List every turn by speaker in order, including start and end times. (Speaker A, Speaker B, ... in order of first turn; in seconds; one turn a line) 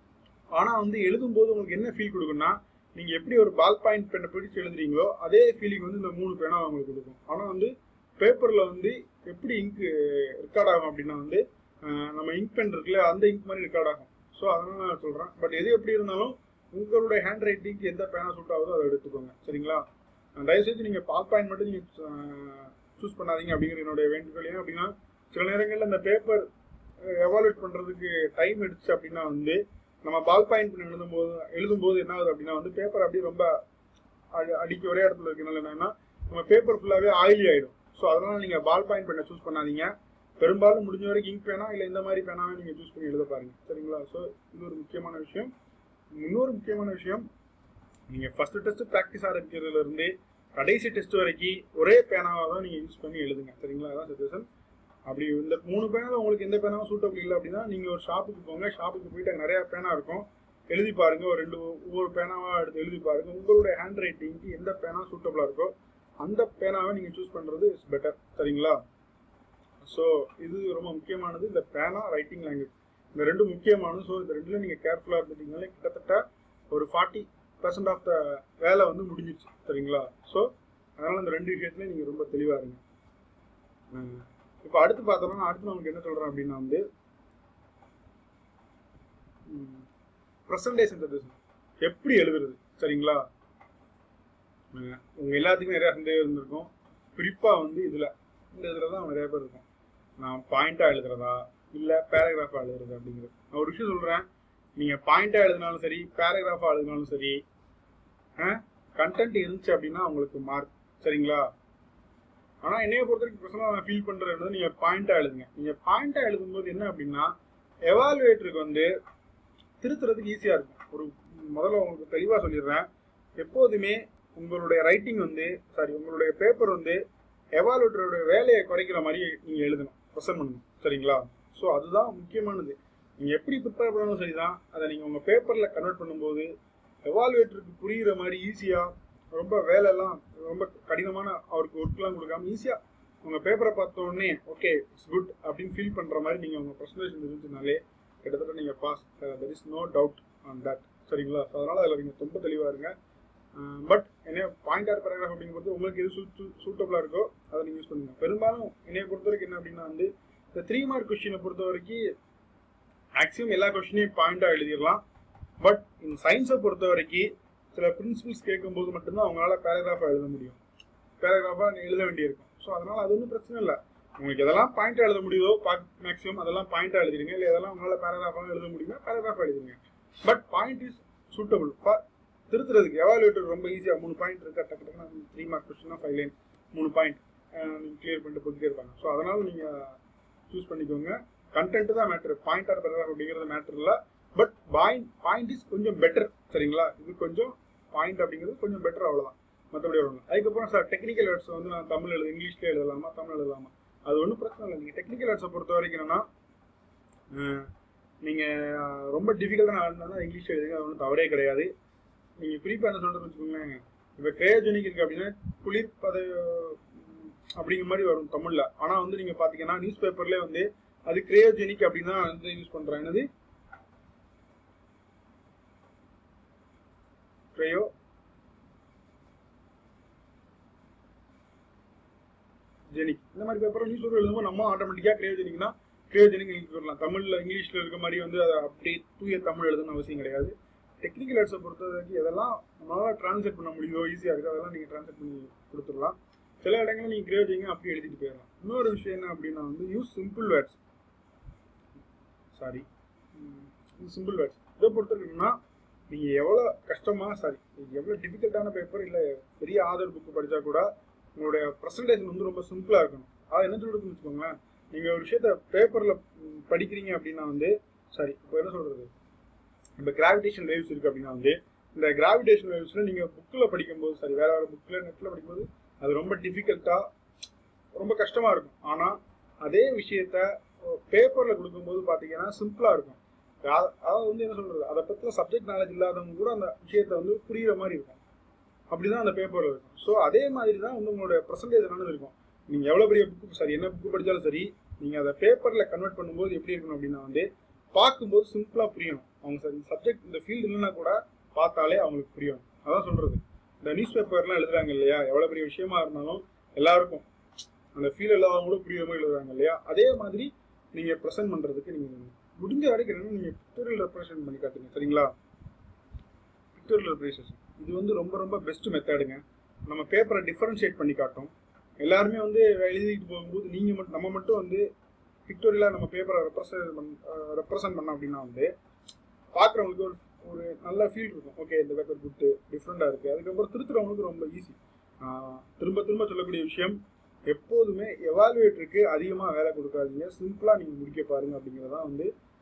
Speaker A: 0.5-19.8
Speaker A: 20.4-26.5
Speaker A: 27.0-33.6
Speaker A: 34.3-45.5
Speaker A: 46.1-47.2
Speaker A: 48.1-54.5
Speaker A: 55.1-68.8
Speaker A: 69.8-82.8
Speaker A: 83.9-86.8
Speaker A: 89.5-89.9
Speaker A: 90.5-93.2
Speaker A: 94.7-99.6
Speaker A: 100.2-104.2
Speaker A: 104.8-107.4
Speaker A: 108.4-111.5
Speaker A: 112.6-117.3
Speaker A: 117.9-118.9
Speaker A: 119.8-122.9
Speaker A: 123.4-127.0
Speaker A: 127.5-136.5
Speaker A: 137.0-152.9
Speaker A: 153.6-162.0
Speaker A: 163.2-165.0
Speaker A: 165.6-170.6
Speaker A: 171.2-189.9
Speaker A: 190.5-206.2
Speaker A: 207.3-207.7
Speaker A: 208.2-211.7
Speaker A: 212.4-223.2
Speaker A: 227.5-227.9
Speaker A: 232.9-250.8
Speaker A: 252.5-255.5
Speaker A: 256.1-269.1
Speaker A: 270.0-277.0
Speaker A: 277.9-288.2
Speaker A: 288.9-307.3
Speaker A: 307.9-315.3
Speaker A: 316.7-324.8
Speaker A: 325.4-328.7
Speaker A: 329.5-337.0
Speaker A: 337.5-342.3